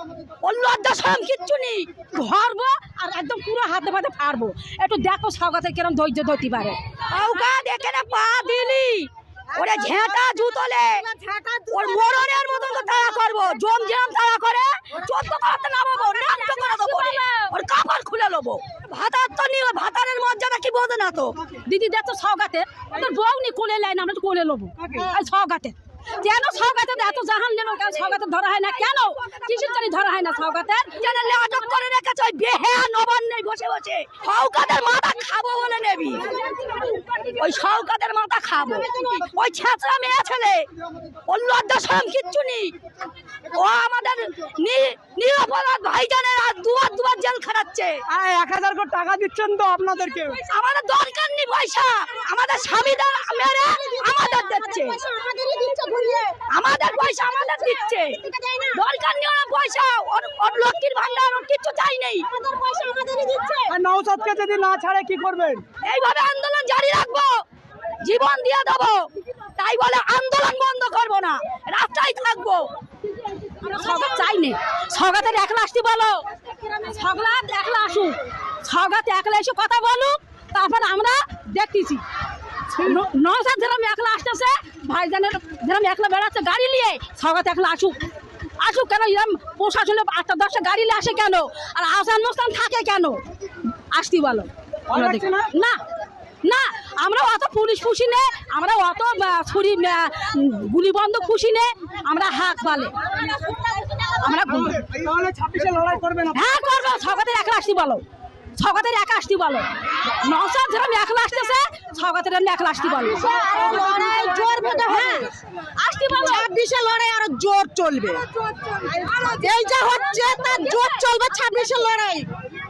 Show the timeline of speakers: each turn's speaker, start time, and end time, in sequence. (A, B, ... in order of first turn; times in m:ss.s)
0:00.4-0:01.9 A
0:02.1-0:06.8 B
0:07.1-0:11.0 A
0:11.1-0:12.3 C
0:11.7-0:21.4 A
0:16.0-0:17.5 B
0:21.6-0:30.9 B
0:30.9-0:36.3 A
0:37.4-0:40.7 A
0:41.3-0:42.7 A
0:43.5-0:48.0 A
0:48.1-0:50.4 D
0:50.5-0:55.0 A
0:55.1-0:56.4 C
0:56.5-1:02.3 A
1:02.4-1:03.7 C
1:02.7-1:03.0 B
1:03.7-1:05.6 D
1:05.8-1:07.4 A
1:08.0-1:12.7 A
1:13.6-1:22.0 B
1:22.7-1:28.0 B
1:28.6-1:33.2 B
1:33.9-1:35.8 B
1:34.9-1:35.5 D
1:36.4-1:44.8 B
1:44.7-1:46.4 D
1:46.3-1:48.0 B
1:48.6-1:53.5 B
1:53.2-1:55.3 C
1:54.8-1:56.5 B
1:56.1-1:58.3 C
1:58.9-2:02.3 C